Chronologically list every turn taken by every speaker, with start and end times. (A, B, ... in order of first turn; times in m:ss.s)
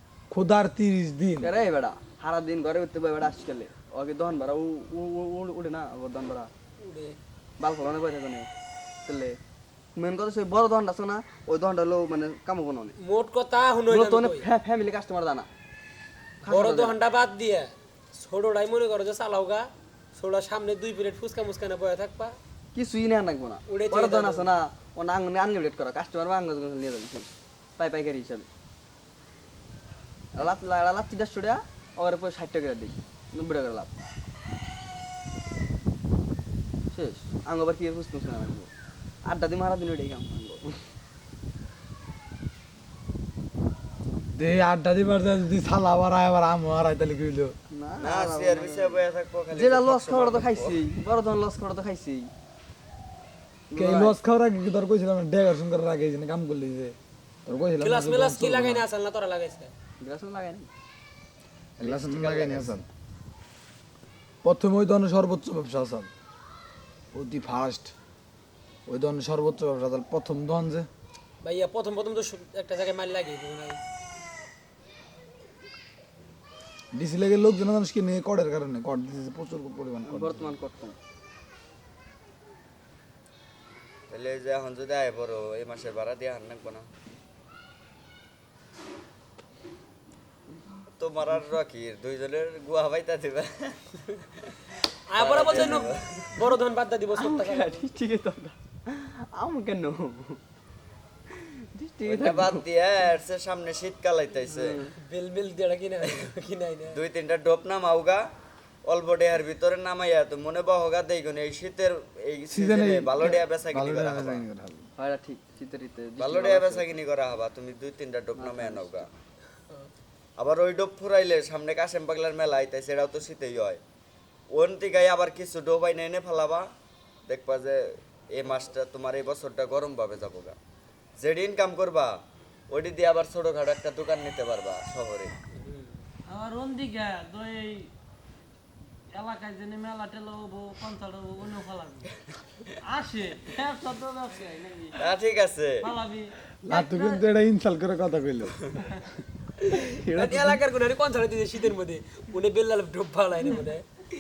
0:00.3-0:01.5 A
0:01.4-0:06.5 B
0:06.8-0:07.2 C
0:07.6-0:08.5 B
0:09.0-0:09.4 B
0:10.0-0:12.9 B
0:13.0-0:14.4 C
0:13.9-0:15.5 B
0:16.4-0:17.0 B
0:16.5-0:22.4 C
0:22.7-0:28.5 B
0:23.7-0:24.5 C
0:30.3-0:33.9 B
0:36.9-0:38.7 B
0:39.2-0:40.8 B
0:44.4-0:47.5 A
0:47.7-0:52.3 B
0:48.0-0:50.8 D
0:53.7-0:54.2 B
0:53.7-0:58.8 A
0:57.8-0:59.7 C
1:00.0-1:00.7 B
1:01.8-1:02.8 A
1:01.8-1:02.7 B
1:04.4-1:06.1 A
1:07.1-1:07.9 A
1:08.9-1:10.9 A
1:11.4-1:13.8 C
1:16.9-1:20.5 A
1:20.0-1:21.0 B
1:24.1-1:26.9 D
1:31.0-1:34.5 D
1:35.1-1:37.8 C
1:35.2-1:36.5 D
1:37.1-1:40.4 B
1:41.3-1:42.6 B
1:42.0-1:44.8 D
1:44.5-1:44.9 B
1:45.0-1:47.0 C
1:46.9-1:48.2 D
1:48.9-1:54.4 D
1:52.5-1:54.9 A
1:55.0-1:56.9 B
1:56.2-1:59.1 D
1:58.4-1:59.0 B
2:00.4-2:03.8 D
2:04.5-2:06.7 D
2:07.3-2:10.6 D
2:11.2-2:12.1 D
2:12.7-2:15.3 D
2:16.3-2:17.9 E
2:19.1-2:22.1 E
2:22.8-2:25.0 E
2:25.0-2:25.8 D
2:25.8-2:27.2 E
2:26.6-2:28.7 A
2:29.7-2:30.6 B
2:30.0-2:33.8 C